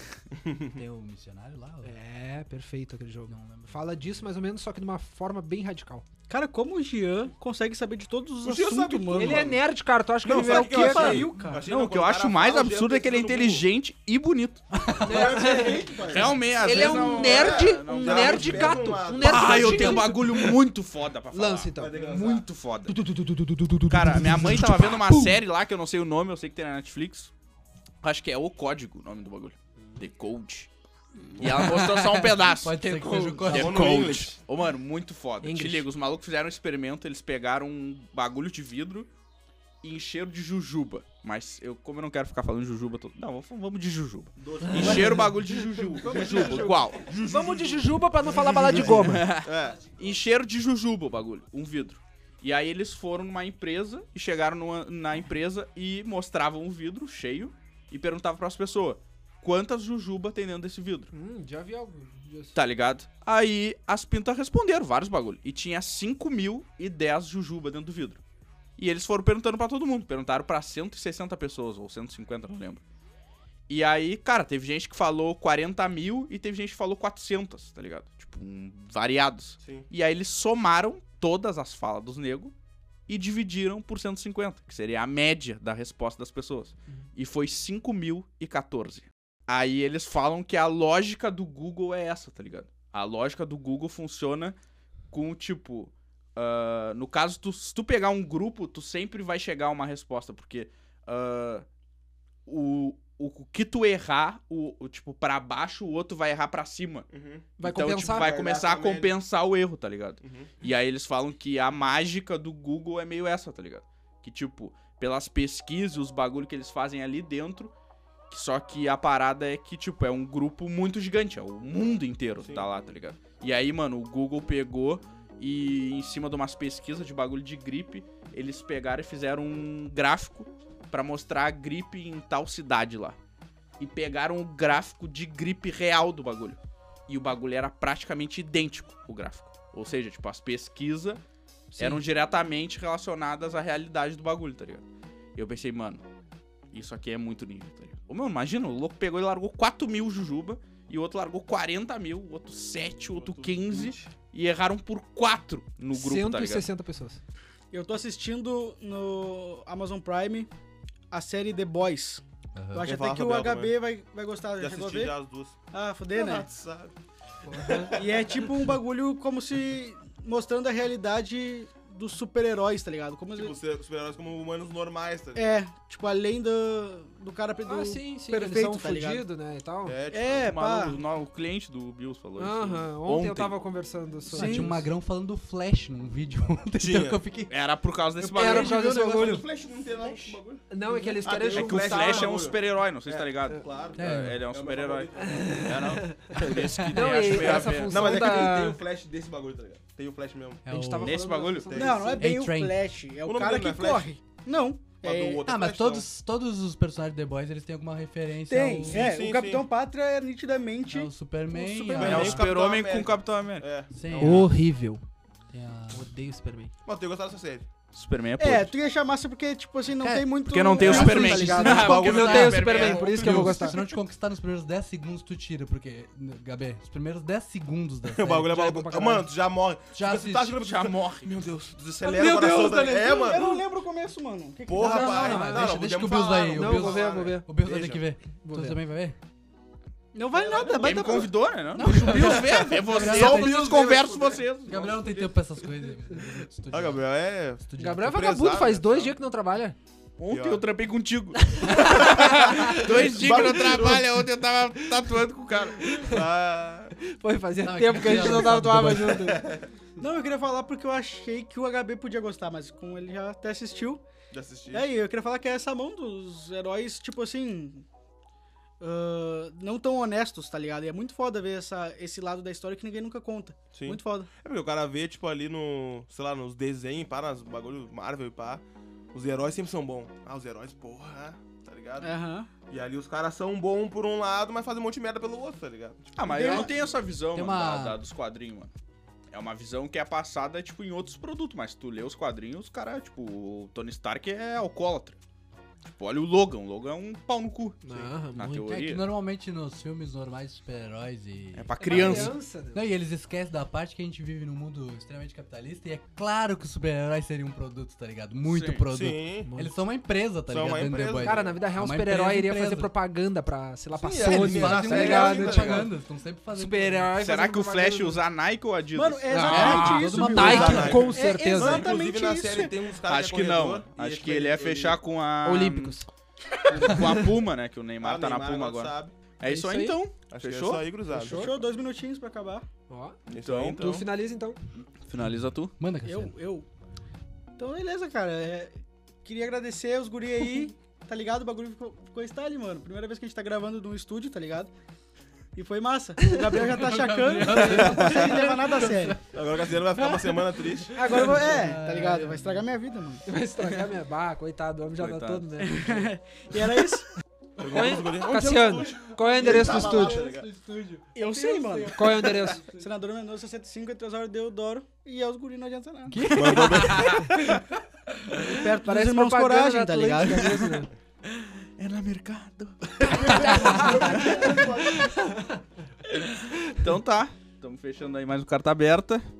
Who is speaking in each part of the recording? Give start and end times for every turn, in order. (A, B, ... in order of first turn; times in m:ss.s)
0:00.7-0:02.0 A
0:01.8-0:06.0 B
0:03.3-0:04.2 A
0:06.3-0:09.6 C
0:08.4-0:09.6 D
0:09.1-0:11.3 B
0:10.2-0:13.6 D
0:10.2-0:11.7 C
0:11.6-0:14.6 E
0:14.7-0:15.4 A
0:15.0-0:20.1 D
0:15.0-0:20.6 B
0:16.0-0:23.0 E
0:21.3-0:25.3 B
0:21.8-0:22.4 D
0:23.9-0:27.3 E
0:28.0-0:30.7 E
0:31.2-0:34.2 A
0:31.4-0:39.1 E
0:32.8-0:33.7 B
0:33.5-0:34.4 D
0:35.4-0:35.9 B
0:39.8-0:47.6 E
0:44.4-0:45.3 D
0:44.6-0:49.3 B
0:44.8-0:45.1 A
0:46.0-0:46.9 D
0:48.4-1:01.1 E
0:48.5-0:50.0 D
1:01.1-1:02.6 B
1:02.5-1:08.2 E
1:08.8-1:12.8 E
1:13.7-1:22.5 E
1:19.6-1:19.9 D
1:23.1-1:34.6 E
1:35.1-1:41.6 E
1:42.4-1:47.1 E
1:47.1-1:49.1 D
1:47.6-1:48.3 B
1:47.6-1:57.7 E
1:50.2-1:50.6 D
1:58.3-2:13.2 E
2:13.8-2:26.0 E
2:26.7-2:36.7 E
2:33.1-2:34.1 D
2:35.9-2:37.2 B
2:37.7-2:40.5 C
2:41.1-2:45.2 C
2:42.6-2:42.9 A
2:42.8-2:43.7 D
2:44.6-2:45.6 D
2:45.7-2:46.5 C
2:46.1-2:46.9 D
2:47.4-2:48.0 B
2:47.5-2:48.5 D
2:47.9-2:53.6 C
2:53.3-2:55.6 D
2:55.3-2:59.2 C
2:57.6-3:00.0 B
2:59.8-3:00.5 D
3:00.1-3:01.0 C
3:00.4-3:03.6 E
3:02.4-3:04.8 B
3:04.3-3:07.5 A
3:04.3-3:04.7 C
3:06.8-3:07.2 D
3:07.5-3:08.7 E
3:08.3-3:12.5 B
3:08.3-3:15.8 D
3:08.7-3:09.4 A
3:11.5-3:18.4 E
3:14.0-3:14.4 A
3:15.2-3:18.8 B
3:17.1-3:20.6 D
3:20.6-3:21.2 A
3:20.7-3:22.3 B
3:21.0-3:21.8 E
3:21.7-3:22.2 D
3:21.7-3:25.4 C
3:22.2-3:22.8 A
3:23.2-3:24.1 D
3:25.0-3:26.0 D
3:25.4-3:29.0 A
3:28.5-3:32.4 C
3:28.8-3:29.7 D
3:30.9-3:32.5 A
3:31.9-3:34.4 D
3:31.9-3:33.6 E
3:33.9-3:34.6 A
3:34.1-3:35.0 B
3:35.5-3:36.1 A
3:35.9-3:36.7 B
3:36.8-3:37.7 D
3:37.9-3:38.7 E
3:38.4-3:42.3 C
3:40.0-3:48.5 A
3:40.5-3:43.6 E
3:40.8-3:43.4 D
3:41.7-3:43.8 B
3:48.1-3:53.6 D
3:48.4-3:49.3 B
3:49.9-3:50.6 A
3:50.6-3:51.3 E
3:52.0-3:55.5 C
3:54.6-3:58.0 D
3:54.8-3:59.2 A
3:54.8-3:55.8 B
3:56.5-3:57.5 B
3:58.4-3:58.8 B
4:00.1-4:01.3 C
4:00.3-4:01.3 D
4:00.8-4:04.9 E
4:01.7-4:03.8 A
4:02.2-4:05.1 D
4:04.7-4:07.0 A
4:06.7-4:09.1 D
4:07.7-4:08.1 A
4:07.8-4:09.8 B
4:10.2-4:15.8 E
4:10.3-4:10.6 D
4:11.5-4:13.8 B
4:12.5-4:14.1 D
4:15.8-4:16.2 B
4:16.1-4:17.0 D
4:17.0-4:19.5 B
4:17.6-4:19.4 A
4:19.2-4:19.6 D
4:20.0-4:24.0 C
4:24.3-4:24.9 D
4:24.7-4:27.8 C
4:28.8-4:34.3 C
4:33.7-4:42.1 D
4:42.0-4:42.5 C
4:42.7-4:46.7 D
4:46.2-4:48.7 E
4:46.2-4:46.7 C
4:47.3-4:48.0 A
4:49.3-4:55.2 E
4:55.8-4:59.0 E
4:57.8-4:58.8 B
4:58.7-5:12.9 A
5:01.5-5:02.4 E
5:01.8-5:02.8 B
5:08.5-5:08.8 E
5:08.9-5:09.5 D
5:09.4-5:09.7 B
5:10.5-5:11.4 D
5:11.2-5:15.9 B
5:13.9-5:15.9 D
5:14.2-5:17.1 A
5:16.5-5:18.2 B
5:17.2-5:20.1 E
5:18.9-5:22.8 C
5:19.3-5:21.9 B
5:19.5-5:21.2 A
5:20.2-5:25.0 D
5:23.0-5:25.9 E
5:25.4-5:26.1 B
5:26.7-5:27.2 D
5:26.7-5:30.8 E
5:28.0-5:29.1 D
5:29.4-5:30.0 B
5:30.3-5:31.5 D
5:31.1-5:31.6 B
5:31.2-5:32.6 C
5:32.9-5:34.6 B
5:33.3-5:34.0 D
5:33.4-5:34.0 E
5:34.7-5:35.7 E
5:35.2-5:36.3 A
5:36.0-5:36.6 C
5:37.6-5:44.7 C
5:45.5-5:49.3 C
5:46.5-5:49.2 A
5:47.5-5:48.4 D
5:49.3-5:51.3 D
5:50.0-5:50.2 C
5:50.9-5:53.2 C
5:51.0-5:52.6 A
5:53.2-5:55.9 B
5:55.0-5:55.5 E
5:55.8-5:57.1 C
5:55.8-5:56.0 A
5:57.6-6:00.5 D
5:57.7-6:00.2 B
5:59.4-6:02.8 A
6:01.1-6:07.6 C
6:01.9-6:02.6 B
6:06.1-6:07.3 A
6:06.3-6:07.2 D
6:06.9-6:07.2 E
6:08.4-6:10.7 C
6:08.4-6:10.9 B
6:11.2-6:14.6 E
6:13.0-6:15.1 D
6:13.4-6:14.0 A
6:13.8-6:15.6 B
6:16.1-6:19.2 E